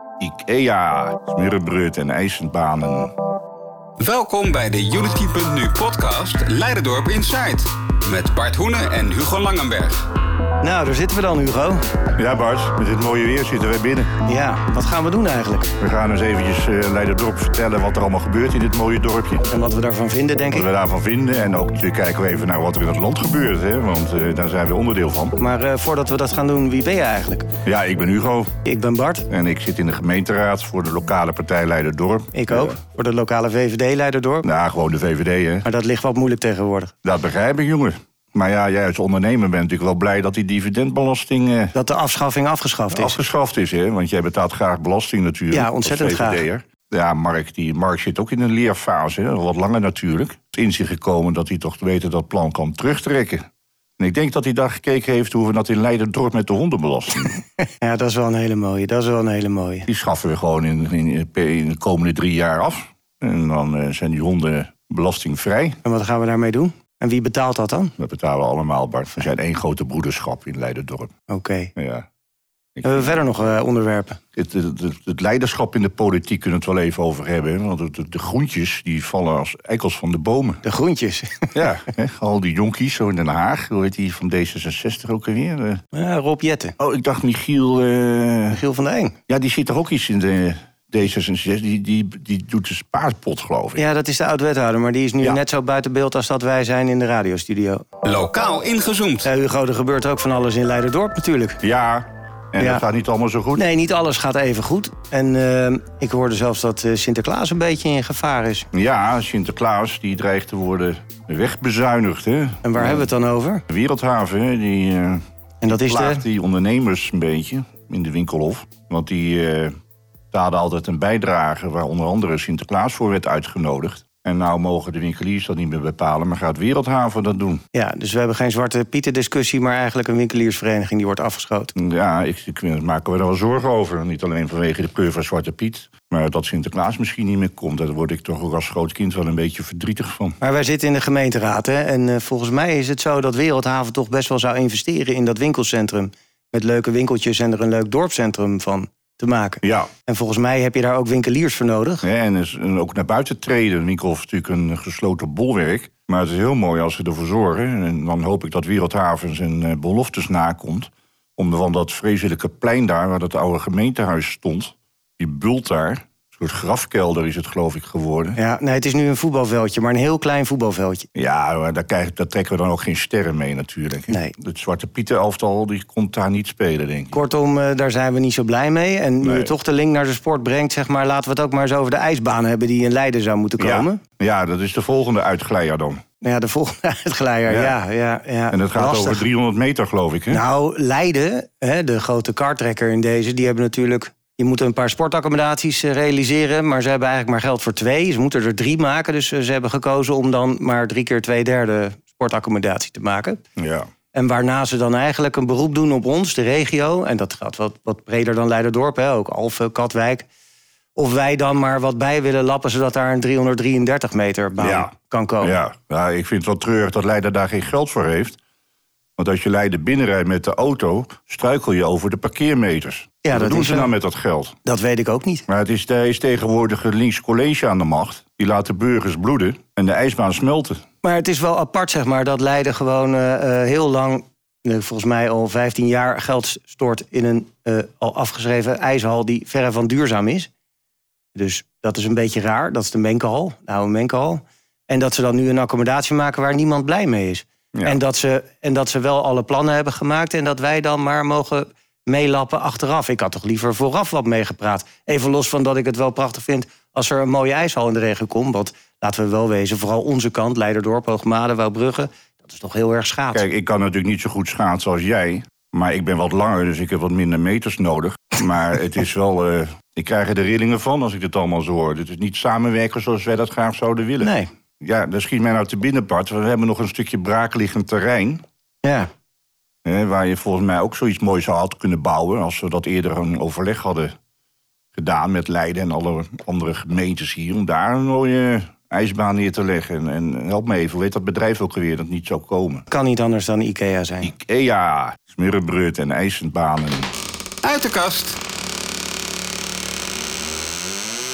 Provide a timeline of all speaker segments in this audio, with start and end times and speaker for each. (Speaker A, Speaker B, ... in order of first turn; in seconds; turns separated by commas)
Speaker A: 0.2-3.1, Speaker B: 4.0-10.0, Speaker C: 10.6-11.8, Speaker A: 12.2-14.1, Speaker C: 14.2-15.7, Speaker A: 15.8-19.5, Speaker C: 19.5-20.7, Speaker A: 20.5-25.4, Speaker C: 25.4-27.5, Speaker A: 27.6-28.5, Speaker C: 28.6-29.3, Speaker A: 29.3-32.8, Speaker C: 32.3-34.5, Speaker A: 34.4-35.6, Speaker C: 35.6-36.9, Speaker A: 37.0-41.7, Speaker C: 41.7-43.2, Speaker A: 42.9-53.4, Speaker C: 45.5-46.4, Speaker A: 54.0-57.4, Speaker C: 57.8-59.9, Speaker A: 59.9-65.8, Speaker C: 65.8-67.9, Speaker A: 68.0-71.1, Speaker C: 71.3-71.7, Speaker A: 71.8-72.1, Speaker A: 72.7-73.2, Speaker C: 72.8-74.2, Speaker A: 74.3-80.6, Speaker C: 80.6-81.6, Speaker A: 81.5-85.8, Speaker C: 85.9-86.8, Speaker A: 86.8-88.6, Speaker C: 88.5-89.2, Speaker A: 89.3-93.8, Speaker C: 93.8-97.8, Speaker B: 98.0-99.3, Speaker C: 99.2-101.6, Speaker A: 101.6-103.7, Speaker C: 102.6-102.8, Speaker C: 103.5-108.7, Speaker A: 108.7-113.1, Speaker C: 112.6-113.6, Speaker A: 113.7-119.7, Speaker C: 115.6-116.2, Speaker A: 120.3-127.6, Speaker C: 127.7-131.7, Speaker A: 131.7-140.4, Speaker C: 140.4-152.0, Speaker A: 149.6-149.9, Speaker A: 152.0-168.4, Speaker C: 168.3-171.1, Speaker A: 171.1-177.1, Speaker C: 174.1-174.3, Speaker C: 177.1-184.0, Speaker A: 179.2-179.5, Speaker A: 183.6-186.0, Speaker C: 186.2-189.2, Speaker A: 187.5-187.8, Speaker A: 188.5-190.4, Speaker C: 190.3-203.4, Speaker A: 203.6-203.9, Speaker C: 204.1-210.3, Speaker C: 210.9-215.5, Speaker A: 214.6-214.9, Speaker A: 215.4-218.4, Speaker A: 219.2-224.6, Speaker C: 223.2-223.9, Speaker C: 224.6-225.4, Speaker A: 225.5-230.8, Speaker C: 231.0-240.5, Speaker C: 241.3-263.4, Speaker A: 247.7-248.0, Speaker A: 263.3-278.4, Speaker C: 274.2-274.5, Speaker C: 278.8-279.1, Speaker A: 279.8-284.1, Speaker A: 284.9-292.8, Speaker C: 292.9-294.3, Speaker A: 294.2-297.1, Speaker B: 297.6-298.4